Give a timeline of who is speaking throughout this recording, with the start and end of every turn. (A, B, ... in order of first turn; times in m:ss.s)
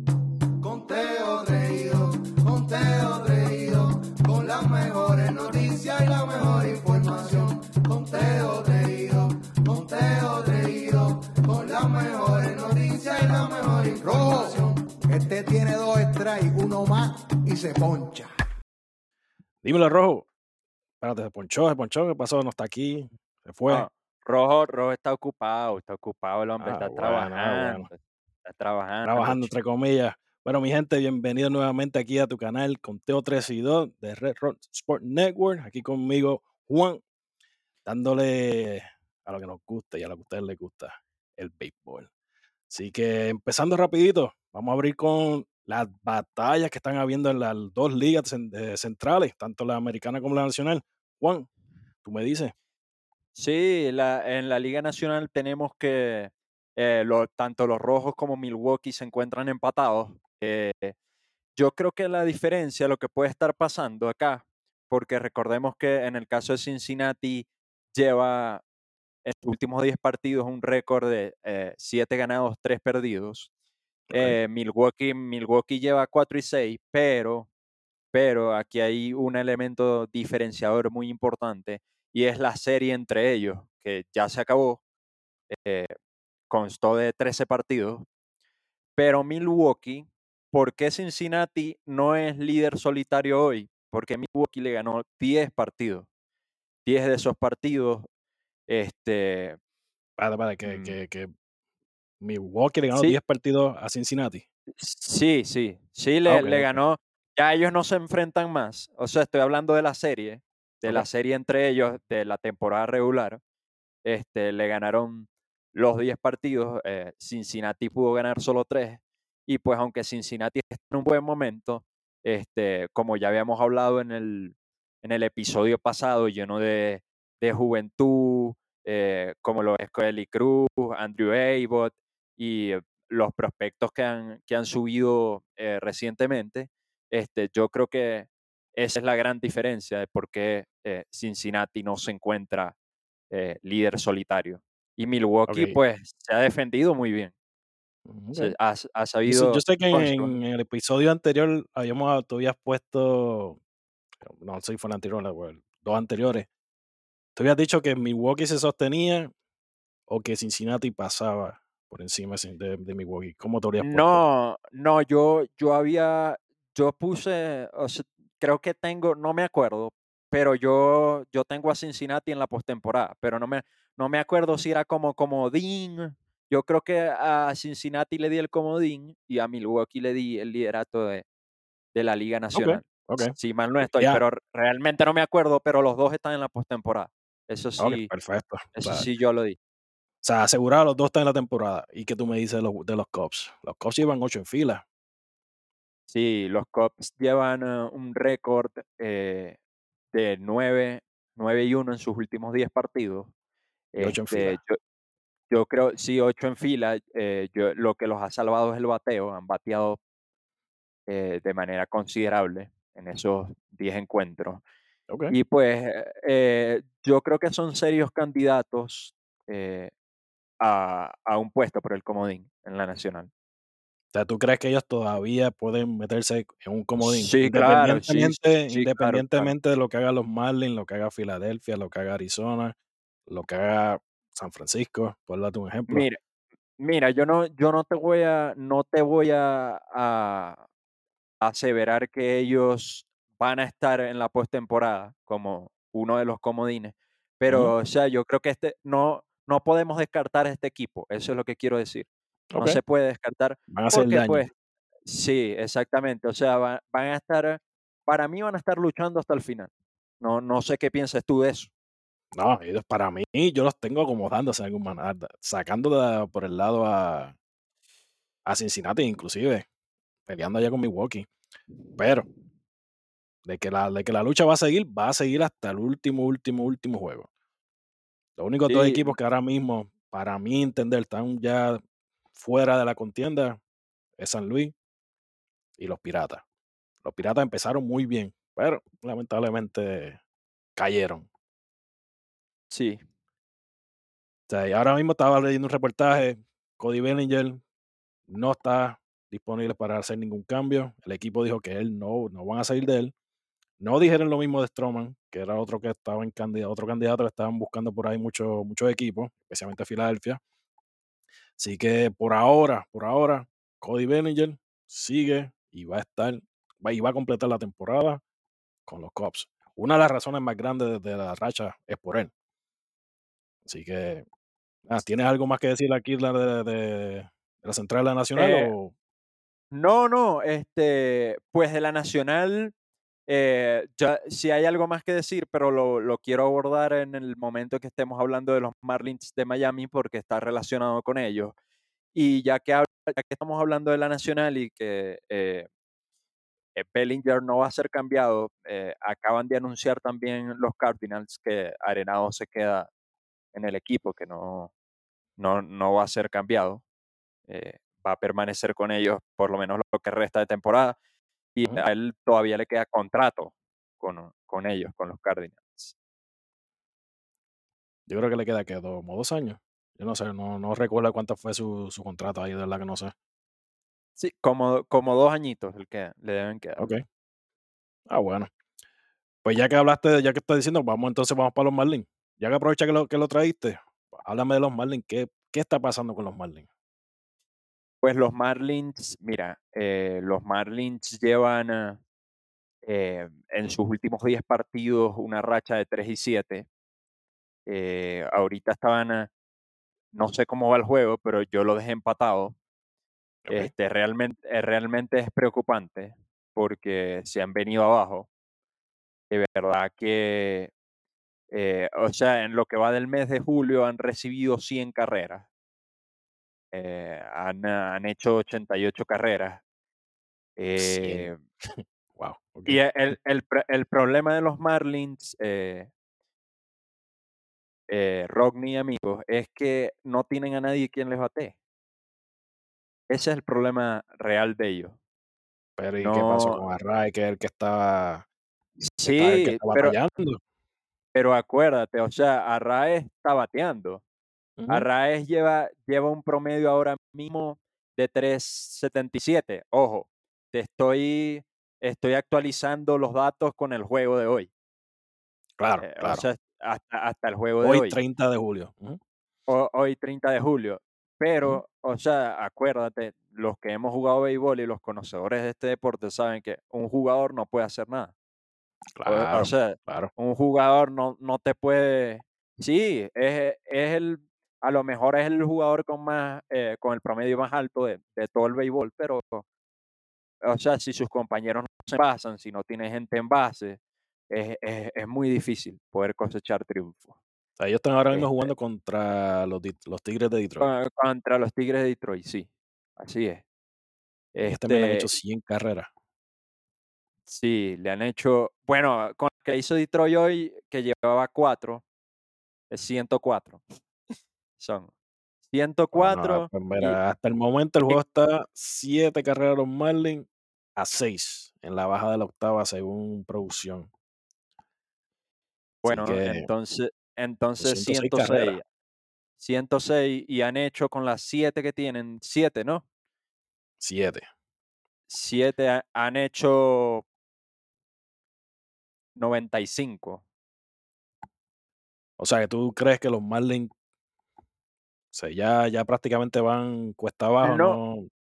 0:00.6-0:18.3 A
0:19.6-0:20.3 B
0:21.0-0:23.9 B
0:23.7-0:29.5 C
0:26.6-0:27.9 B
0:29.0-0:37.0 B
0:37.8-0:42.1 B
0:42.7-0:51.5 B
0:52.0-0:52.5 B
0:53.3-1:01.0 C
1:01.6-1:08.6 C
1:09.2-1:13.5 C
1:14.1-1:14.4 B
1:14.1-1:17.5 C
1:18.1-1:24.8 C
1:25.5-1:25.9 C
1:26.5-1:28.0 C
1:29.0-1:36.1 C
1:36.8-1:38.1 C
1:38.7-1:39.6 C
1:40.2-1:41.3 B
1:40.6-1:41.0 C
1:42.2-1:44.4 B
1:44.8-1:53.4 C
1:46.2-1:46.8 B
1:54.0-2:22.7 C
2:23.3-2:27.3 C
2:25.5-2:25.8 B
2:28.0-2:28.5 B
2:28.3-2:30.4 C
2:29.3-2:33.6 B
2:34.2-2:36.5 B
2:37.4-2:39.3 B
2:40.1-2:44.2 B
2:43.8-3:01.2 C
3:01.9-3:08.1 C
3:02.5-3:04.2 B
3:07.8-3:09.0 B
3:08.7-3:09.6 C
3:10.2-3:14.8 B
3:16.1-3:19.6 C
3:20.1-3:23.3 C
3:23.9-3:24.8 C
3:24.0-3:24.6 B
3:25.5-3:30.0 C
3:31.1-3:34.6 C
3:35.1-3:35.3 B
3:35.3-3:39.9 C
3:40.6-3:43.3 C
3:44.1-3:52.7 B
3:47.0-3:49.5 C
3:53.3-3:56.1 B
3:55.9-3:56.2 C
3:56.8-4:00.6 C
4:01.4-4:14.5 C
4:12.5-4:12.8 B
4:13.7-4:14.5 B
4:15.0-4:21.7 C
4:22.3-4:27.4 B
4:28.4-4:29.6 B
4:30.2-4:31.3 B
4:32.0-4:32.3 B
4:33.4-4:37.3 B
4:38.4-4:41.8 B
4:38.7-4:39.2 C
4:42.3-4:43.6 B
4:44.2-4:44.7 B
4:45.8-4:46.4 B
4:47.0-4:50.2 B
4:50.8-4:51.3 B
4:52.7-4:53.0 C
4:54.5-4:57.6 B
4:58.3-5:03.1 B
5:03.8-5:10.4 B
5:11.6-5:18.2 B
5:18.9-5:22.3 B
5:23.6-5:24.2 B
5:24.9-5:28.9 B
5:28.3-5:28.7 C
5:29.7-5:32.7 C
5:33.3-5:41.5 C
5:42.1-5:45.7 C
5:46.7-5:52.9 C
5:53.5-5:54.7 C
5:55.4-5:56.8 C
5:57.5-6:01.0 C
6:01.5-6:05.9 C
6:08.1-6:13.1 B
6:14.2-6:16.9 C
6:16.8-6:17.0 B
6:18.1-6:18.5 B
6:19.4-6:26.7 B
6:28.0-6:32.0 C
6:32.8-6:36.7 C
6:37.7-6:39.3 C
6:40.1-6:42.6 C
6:43.4-6:43.7 B
6:43.5-6:48.3 C
6:49.3-6:50.7 C
6:51.5-6:55.4 C
6:56.7-6:59.6 C
7:00.6-7:01.4 C
7:00.8-7:03.1 B
7:02.6-7:05.9 C
7:07.9-7:11.6 C
7:13.1-7:15.0 C
7:15.8-7:18.2 B
7:16.0-7:16.6 C
7:18.8-7:20.0 C
7:19.0-7:20.4 B
7:21.1-7:24.0 C
7:24.6-7:24.8 B
7:24.7-7:34.5 C
7:35.6-7:36.2 B
7:35.8-7:38.0 C
7:37.6-7:39.0 B
7:39.5-7:48.1 C
7:49.0-7:50.1 B
7:49.0-7:59.4 C
8:00.4-8:03.8 C
8:04.3-8:07.1 C
8:07.6-8:10.7 B
8:08.1-8:08.5 C
8:10.6-8:13.4 C
8:14.3-8:15.1 C
8:14.4-8:15.9 B
8:17.3-8:21.8 C
8:22.7-8:23.6 C
8:24.6-8:24.9 C
8:25.5-8:27.0 C
8:25.9-8:33.9 B
8:35.8-8:38.6 C
8:35.8-8:36.5 B
8:37.6-8:38.6 B
8:39.4-8:42.8 C
8:43.8-8:44.2 B
8:45.1-8:47.0 C
8:49.2-8:50.2 C
8:52.2-8:53.7 B
8:55.1-8:58.0 B
8:57.4-8:57.8 C